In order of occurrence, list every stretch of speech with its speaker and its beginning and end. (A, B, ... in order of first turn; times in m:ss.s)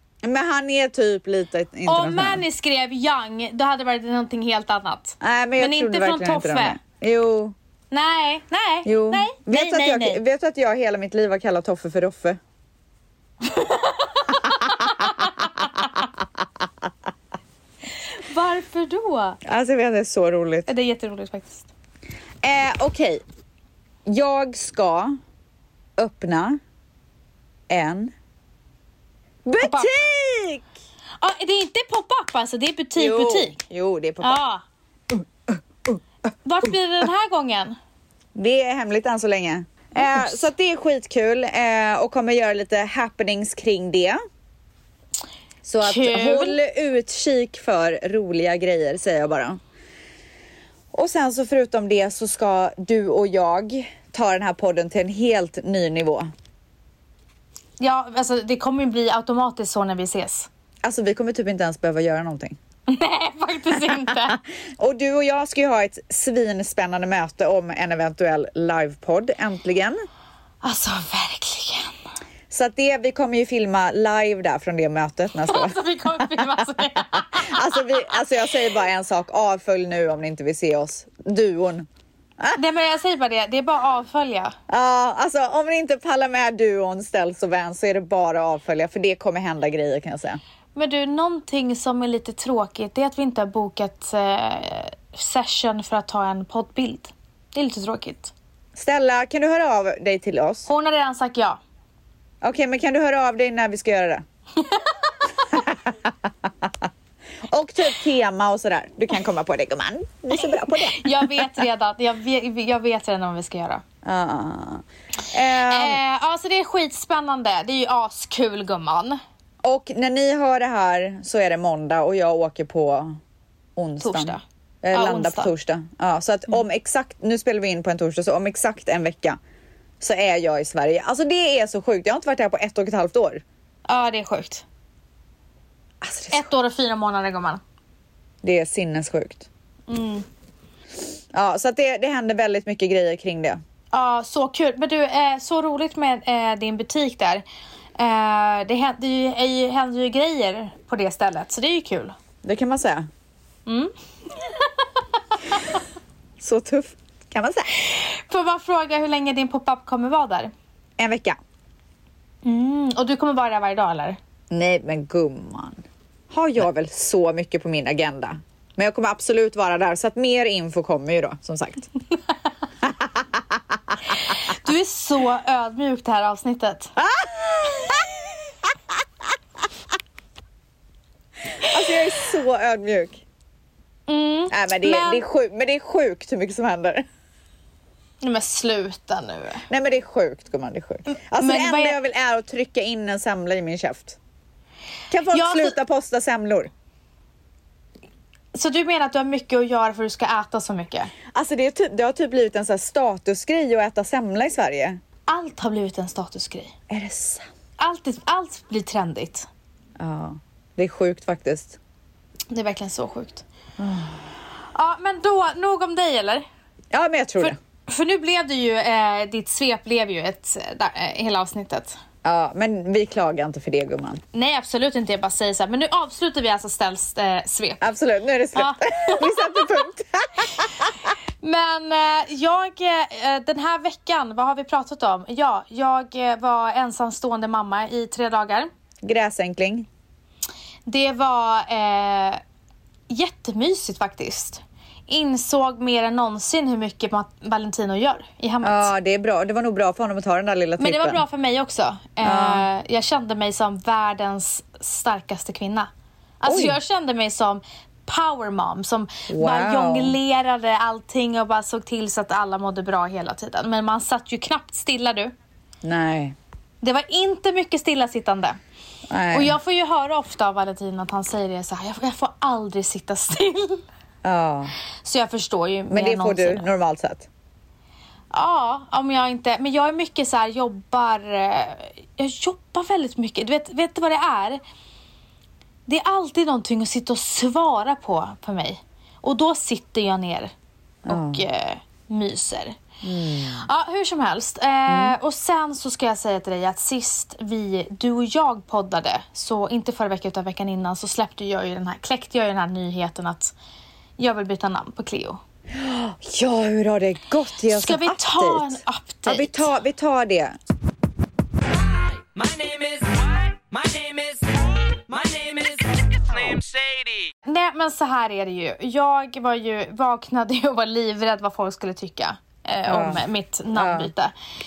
0:00.2-0:02.4 A
0:01.8-0:06.8 B
0:05.2-0:07.5 A
0:07.9-0:10.2 B
0:08.8-0:12.4 A
0:13.5-0:15.9 B
0:18.1-0:19.4 B
0:19.4-0:20.7 A
0:20.7-0:21.7 B
0:22.4-0:23.2 A
0:24.1-0:25.2 A
0:26.0-0:26.6 A
0:27.7-0:28.1 A
0:29.4-0:30.6 A
0:29.6-0:29.9 B
0:31.2-0:33.6 B
0:33.0-0:34.4 A
0:34.2-0:34.6 B
0:36.4-0:37.8 B
0:38.3-0:44.2 A
0:40.0-0:40.4 B
0:45.6-0:49.6 A
0:45.8-0:46.6 B
0:50.9-0:56.3 A
0:57.8-1:00.5 B
1:00.8-1:02.6 A
1:02.9-1:04.4 B
1:03.7-1:10.0 A
1:10.6-1:11.9 B
1:12.5-1:16.4 A
1:15.4-1:17.7 B
1:17.2-1:21.9 A
1:22.5-1:24.6 B
1:24.7-1:30.4 A
1:30.7-1:38.3 B
1:38.7-1:40.7 A
1:40.7-1:41.6 B
1:42.4-1:44.2 A
1:44.6-1:44.9 B
1:45.5-1:46.9 A
1:47.5-1:51.5 A
1:50.7-1:53.8 B
1:54.0-1:56.0 A
1:55.6-1:59.2 B
1:59.6-2:03.2 A
2:03.8-2:09.4 A
2:04.0-2:04.4 B
2:04.9-2:05.5 B
2:10.0-2:13.4 A
2:13.9-2:14.6 B
2:16.0-2:16.5 A
2:16.3-2:17.6 B
2:18.4-2:19.5 A
2:19.9-2:20.2 B
2:21.3-2:23.6 A
2:23.9-2:27.4 B
2:28.0-2:32.1 B
2:32.4-2:33.1 A
2:33.6-2:34.8 B
2:36.4-2:37.7 A
2:37.8-2:40.5 B
2:41.0-2:41.4 A
2:42.4-2:44.2 B
2:44.5-2:51.9 A
2:52.8-2:53.6 A
2:54.2-2:56.9 B
2:57.0-2:58.2 A
3:01.6-3:03.2 A
3:04.1-3:05.2 B
3:04.5-3:07.0 A
3:08.2-3:09.6 B
3:09.7-3:14.2 A
3:11.1-3:12.0 B
3:15.1-3:16.7 A
3:15.3-3:15.8 B
3:18.5-3:21.1 B
3:21.3-3:25.0 A
3:25.3-3:26.7 B
3:26.9-3:27.5 A
3:27.8-3:29.5 B
3:30.0-3:31.8 A
3:32.5-3:33.4 B
3:33.8-3:34.2 A
3:34.7-3:36.4 B
3:36.9-3:37.6 A
3:37.4-3:42.0 B
3:42.2-3:44.2 A
3:44.3-3:47.9 B
3:47.8-3:50.9 A
3:48.5-3:49.7 B
3:51.4-3:58.7 B
3:59.0-3:59.9 A
4:00.8-4:02.4 B
4:03.1-4:08.9 B
4:08.6-4:11.2 A
4:10.8-4:15.9 B
4:12.2-4:12.6 A
4:16.4-4:25.3 B
4:16.4-4:16.8 A
4:19.3-4:20.2 A
4:25.8-4:26.4 A
4:26.8-4:28.6 B
4:29.1-4:29.6 A
4:29.3-4:33.8 B
4:34.2-4:34.7 A
4:35.0-4:36.7 B
4:35.9-4:37.3 A
4:38.3-4:44.6 B
4:45.9-4:50.5 B
4:51.0-4:51.4 A
4:51.1-4:52.8 B
4:53.0-4:53.6 A
4:53.5-5:03.5 B
4:54.9-4:55.2 A
5:04.2-5:05.4 B
5:05.7-5:10.6 A
5:07.7-5:09.7 B
5:12.3-5:13.1 C
5:13.7-5:14.3 C
5:15.1-5:15.8 C
5:17.4-5:24.3 B
5:22.8-5:24.1 A